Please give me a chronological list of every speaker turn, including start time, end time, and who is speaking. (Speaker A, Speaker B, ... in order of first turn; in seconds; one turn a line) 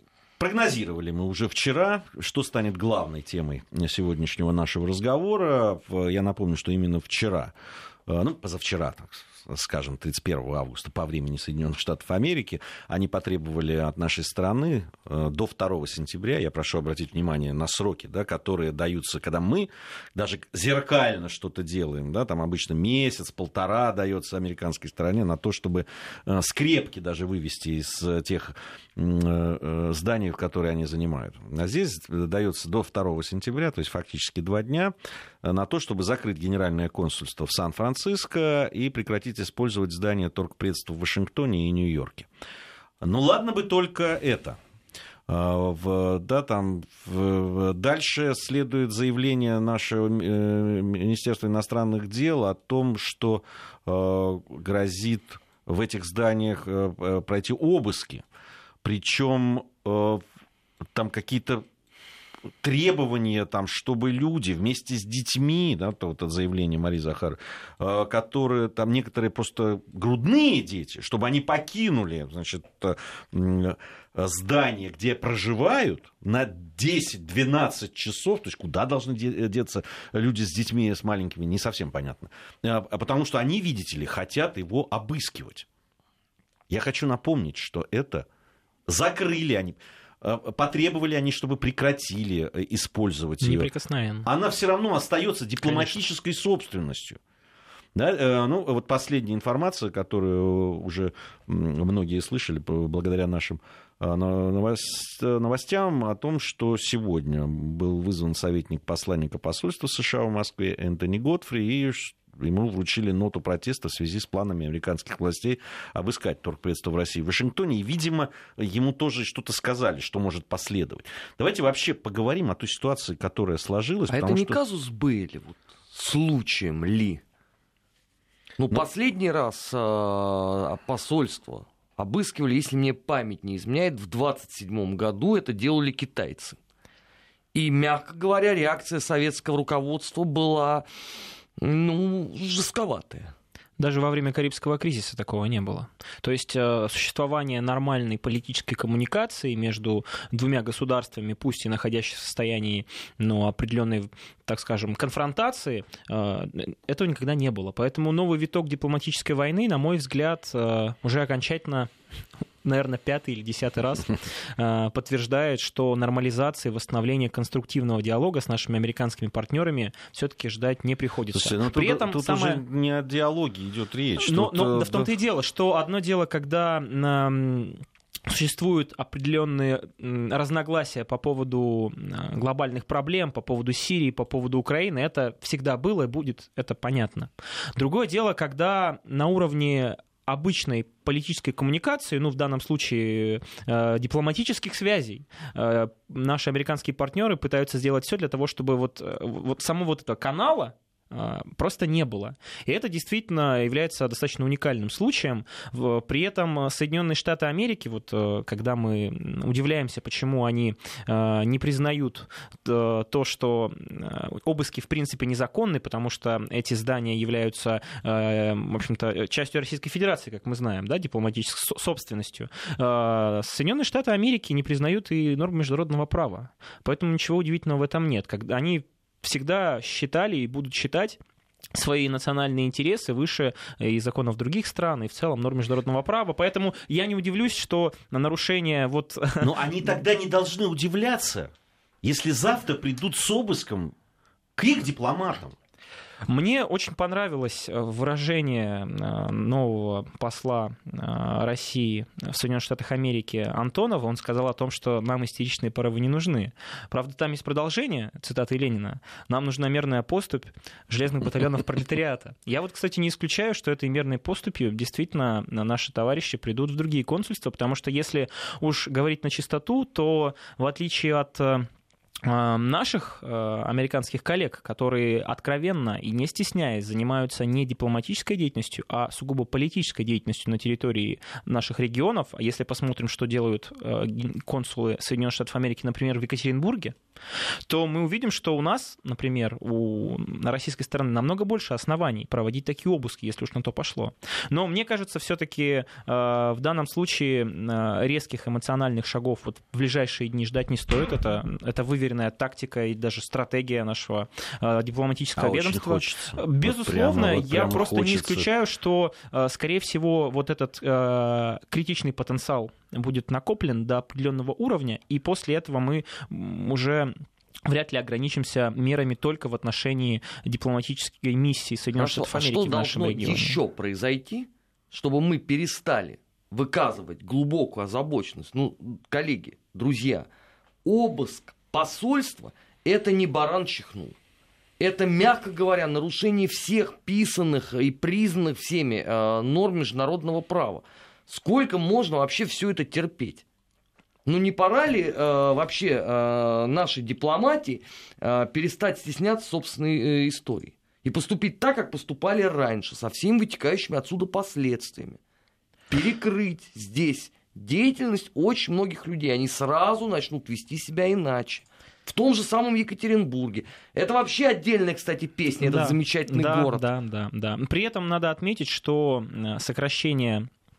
Speaker A: 0.4-7.5
Speaker A: 8.1-42.3
Speaker A: 43.0-44.6
Speaker A: 45.3-58.2
Speaker A: 58.8-60.2
Speaker A: 60.9-61.6
Speaker A: 62.6-85.7
Speaker A: 86.7-88.2
Speaker A: 88.9-93.7
Speaker B: 93.4-94.3
Speaker A: 94.2-97.2
Speaker B: 95.6-96.0
Speaker A: 97.9-124.6
Speaker C: 124.1-127.2
Speaker C: 128.6-136.6
Speaker C: 137.5-140.8
Speaker C: 141.6-143.3
Speaker B: 143.8-161.9
Speaker B: 162.6-172.6
Speaker A: 171.3-175.1
Speaker B: 174.2-231.2
Speaker B: 231.7-239.6
Speaker A: 239.4-241.5
Speaker A: 242.0-243.9
Speaker A: 244.6-245.6
Speaker B: 246.3-271.7
Speaker B: 272.2-286.9
Speaker B: 287.7-317.1
Speaker A: 305.4-308.5
Speaker B: 317.6-323.6
Speaker C: 321.9-330.3
Speaker C: 330.8-334.1
Speaker C: 334.8-343.4
Speaker C: 344.2-355.2
Speaker C: 355.9-366.8
Speaker B: 365.6-370.5